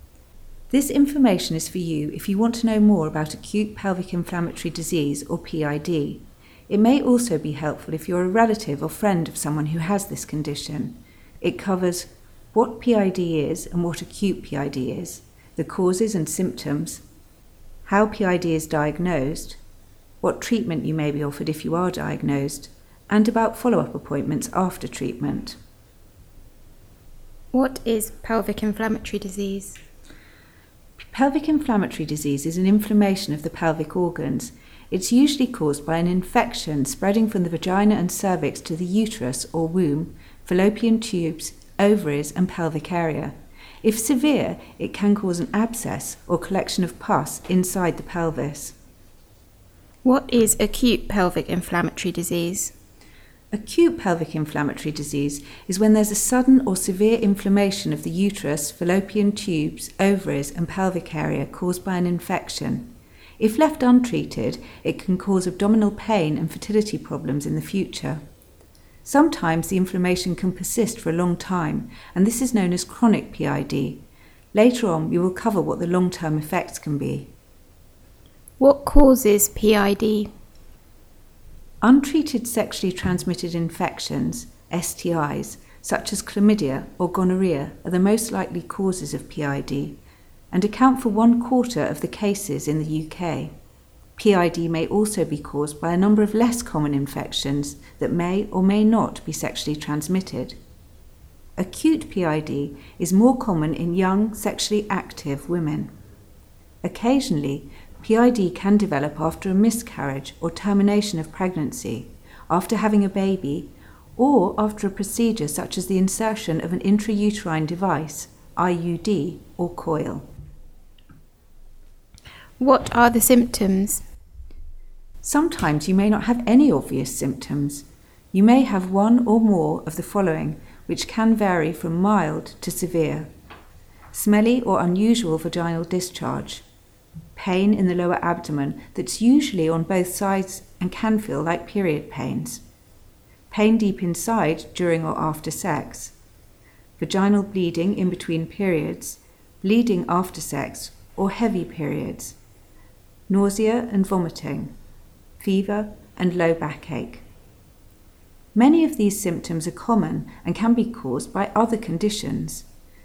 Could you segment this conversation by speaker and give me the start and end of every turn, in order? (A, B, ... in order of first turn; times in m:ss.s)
0:00.7-0:17.0 A
0:17.9-0:19.6 A
0:20.2-0:25.6 A
0:27.5-0:29.8 B
0:31.0-0:48.8 A
0:50.0-0:52.7 B
0:53.5-1:08.2 A
1:09.0-1:17.3 A
1:18.6-1:20.3 B
1:21.8-1:30.0 A
1:30.5-1:33.5 A
1:34.2-1:40.6 A
1:41.6-1:45.9 A
1:46.8-2:00.3 A
2:02.6-2:04.0 B
2:05.2-2:13.3 A
2:14.1-2:16.6 A
2:17.4-2:22.6 A
2:23.5-2:26.2 A
2:27.0-2:32.4 A
2:33.3-2:34.7 A
2:35.4-2:37.2 A
2:38.5-2:42.7 A